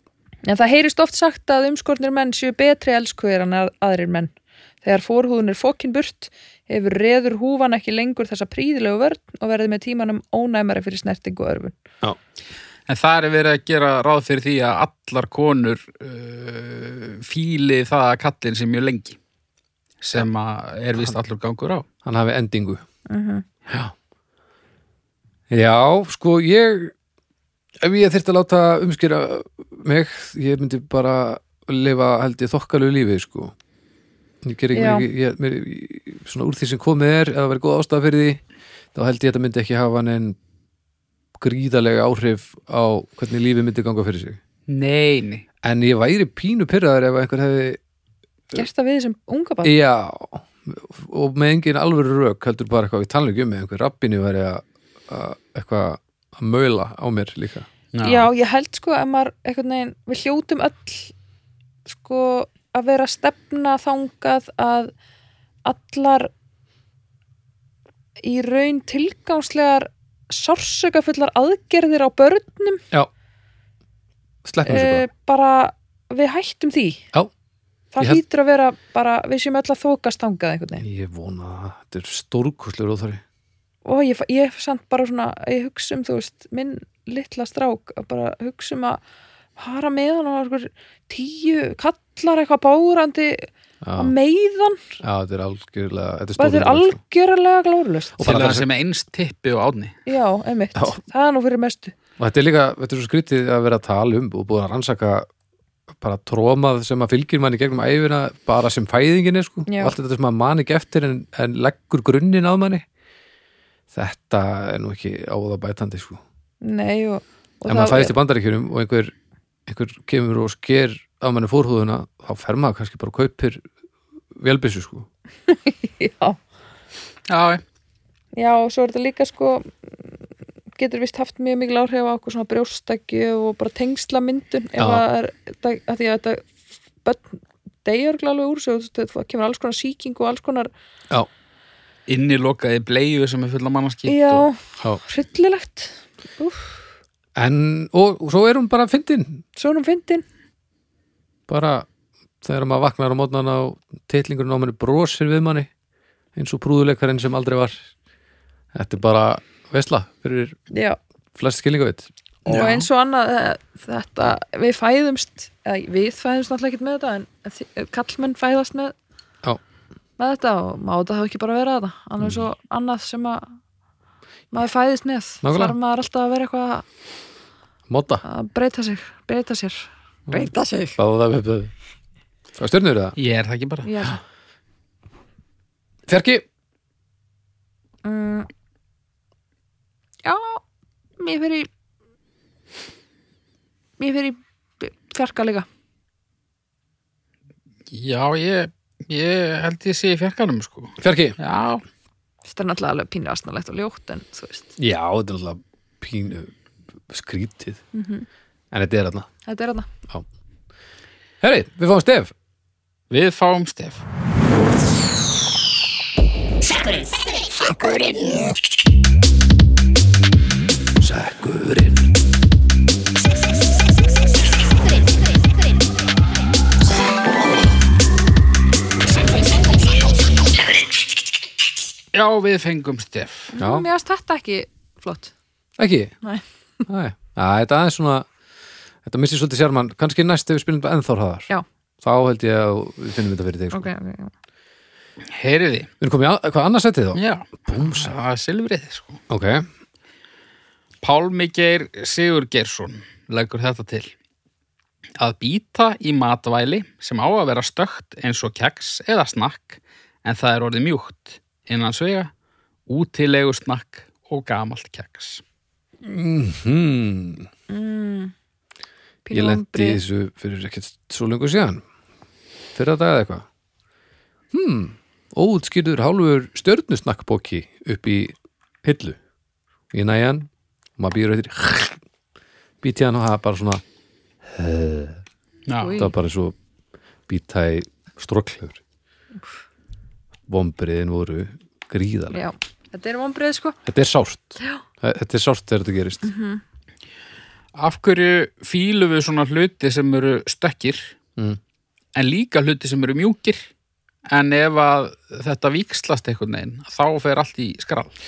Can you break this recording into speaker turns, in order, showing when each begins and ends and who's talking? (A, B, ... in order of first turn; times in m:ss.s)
0:00.4-0:11.8 A
0:12.9-0:19.2 B
0:20.0-0:21.8 B
0:22.0-0:22.8 C
0:23.1-0:23.4 A
0:25.5-0:26.9 C
0:27.8-0:33.5 C
0:34.4-0:38.4 C
0:34.7-0:35.1 A
0:38.9-0:40.4 C
0:41.4-0:44.4 C
0:44.7-0:45.4 B
0:45.6-0:47.8 C
0:48.5-0:49.7 A
0:49.6-0:57.7 C
0:57.9-0:58.3 B
0:58.0-1:01.1 A
1:01.9-1:04.9 A
1:05.6-1:06.3 A
1:08.2-1:12.8 A
1:14.4-1:15.0 C
1:14.6-1:17.0 A
1:17.9-1:20.8 A
1:20.8-1:23.2 C
1:23.8-1:29.0 A
1:29.6-1:35.0 A
1:33.8-1:34.1 C
1:35.0-1:37.0 C
1:36.4-1:38.2 A
1:38.2-1:38.6 C
1:38.2-1:40.0 B
1:40.0-1:41.9 A
1:42.2-1:45.3 C
1:45.9-1:52.8 C
1:49.7-1:49.9 A
1:53.9-1:56.2 C
1:56.6-1:58.2 A
1:57.7-1:59.1 C
1:59.7-2:03.6 C
2:04.4-2:05.1 C
2:05.5-2:06.4 A
2:07.3-2:07.6 B
2:08.3-2:10.1 A
2:10.8-2:16.5 A
2:14.8-2:15.0 C
2:17.0-2:20.7 A
2:22.1-2:24.4 B
2:24.1-2:26.8 A
2:27.4-2:29.4 C
2:29.6-2:30.2 A
2:31.5-2:31.9 C
2:32.4-2:35.7 C
2:36.3-2:37.8 C
2:38.7-2:40.6 C
2:40.7-2:41.0 A
2:41.4-2:42.7 C
2:42.5-2:48.9 A
2:42.5-2:42.8 B
2:50.2-2:53.6 A
2:54.5-2:56.8 A
2:55.4-2:55.8 C
2:57.9-2:58.2 C
2:58.2-3:01.0 A
3:00.3-3:01.7 C
3:02.6-3:03.2 C
3:03.2-3:04.1 B
3:03.8-3:04.2 A
3:06.1-3:06.4 C
3:08.0-3:08.5 A
3:10.2-3:10.6 A
3:11.2-3:11.7 A
3:14.0-3:15.6 A
3:17.9-3:21.8 B
3:21.0-3:21.4 C
3:22.4-3:24.7 A
3:24.8-3:26.5 C
3:27.1-3:27.8 C
3:27.9-3:28.3 A
3:28.7-3:29.3 C
3:29.4-3:29.9 A
3:31.4-3:32.3 C
3:33.1-3:34.0 B
3:41.0-3:42.1 C
3:52.1-3:53.5 B
3:53.5-3:55.3 A
3:53.6-3:53.9 C
3:55.8-3:56.1 C
3:56.9-3:58.3 C
3:59.0-4:01.5 C
4:02.0-4:03.9 C
4:03.7-4:04.3 A
4:05.3-4:05.9 B
4:06.0-4:08.1 C
4:07.1-4:09.2 B
4:09.3-4:09.7 C
4:11.0-4:14.1 B
4:15.2-4:22.3 B
4:22.9-4:25.4 B
4:26.0-4:27.5 C
4:27.7-4:28.3 A
4:29.2-4:30.0 A
4:29.3-4:31.8 C
4:32.7-4:33.4 C
4:34.5-4:39.2 C
4:39.9-4:42.0 C
4:42.8-4:43.8 C
4:44.4-4:45.2 C
4:45.7-4:46.0 B
4:45.8-4:46.1 A
4:45.9-4:46.5 C
4:47.3-4:48.8 C
4:50.5-4:52.4 C
4:52.3-4:53.8 A
4:53.8-4:56.3 C
4:56.2-4:56.6 A
4:57.7-5:01.1 B
5:02.1-5:03.7 B
5:04.3-5:08.1 B